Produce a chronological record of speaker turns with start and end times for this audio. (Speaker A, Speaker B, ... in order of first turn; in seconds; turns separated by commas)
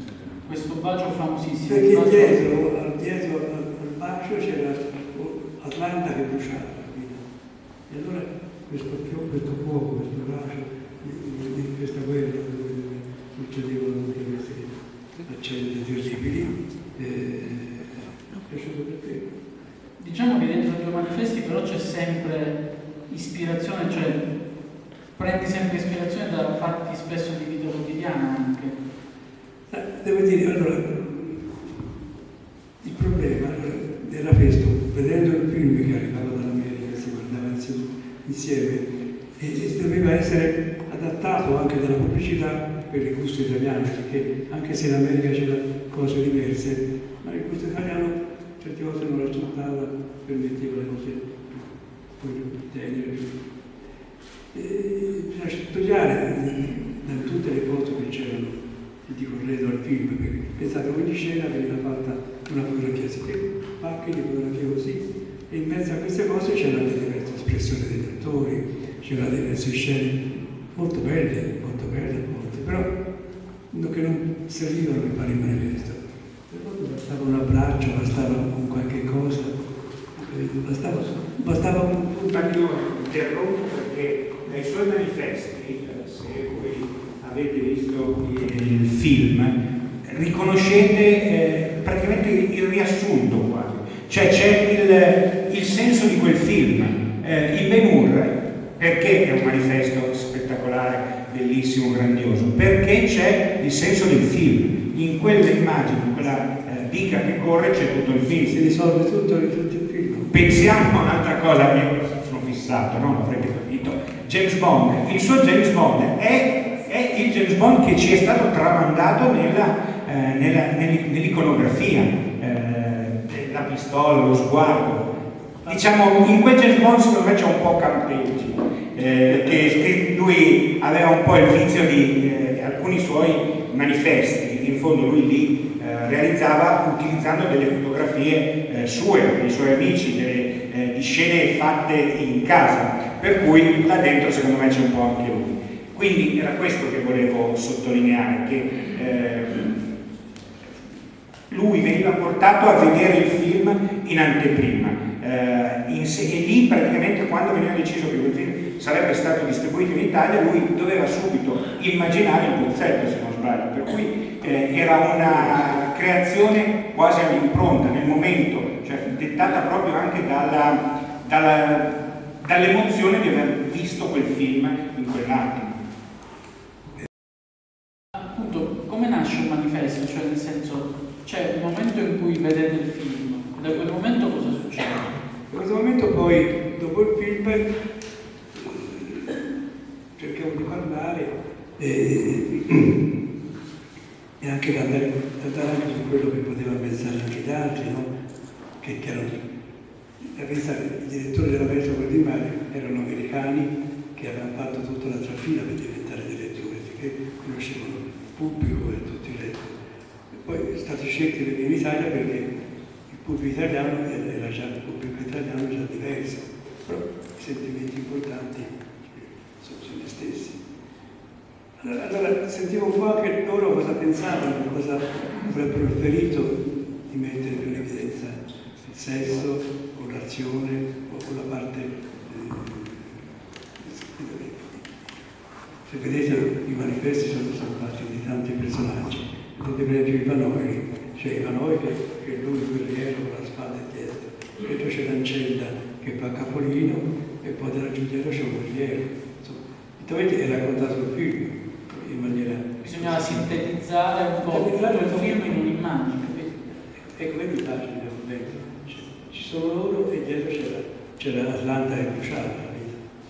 Speaker A: 0.4-2.4, Speaker B: 1.6-7.2, Speaker B: 7.9-19.3, Speaker A: 20.0-24.2, Speaker A: 25.1-28.8, Speaker B: 29.7-31.9, Speaker B: 32.8-53.5, Speaker B: 54.5-72.9, Speaker B: 73.7-79.6, Speaker B: 80.1-82.6, Speaker C: 82.3-108.6, Speaker B: 108.5-110.5, Speaker C: 110.3-149.8, Speaker C: 151.5-175.8, Speaker A: 178.1-185.2, Speaker B: 185.5-187.8, Speaker B: 188.5-189.5, Speaker B: 190.2-193.1, Speaker B: 194.4-198.1, Speaker B: 198.8-199.4, Speaker B: 200.2-209.7, Speaker B: 210.3-212.5, Speaker B: 213.1-220.6, Speaker B: 221.8-233.2, Speaker B: 233.8-234.9, Speaker B: 235.8-253.6, Speaker A: 252.8-256.4, Speaker B: 254.4-255.6, Speaker B: 256.2-263.0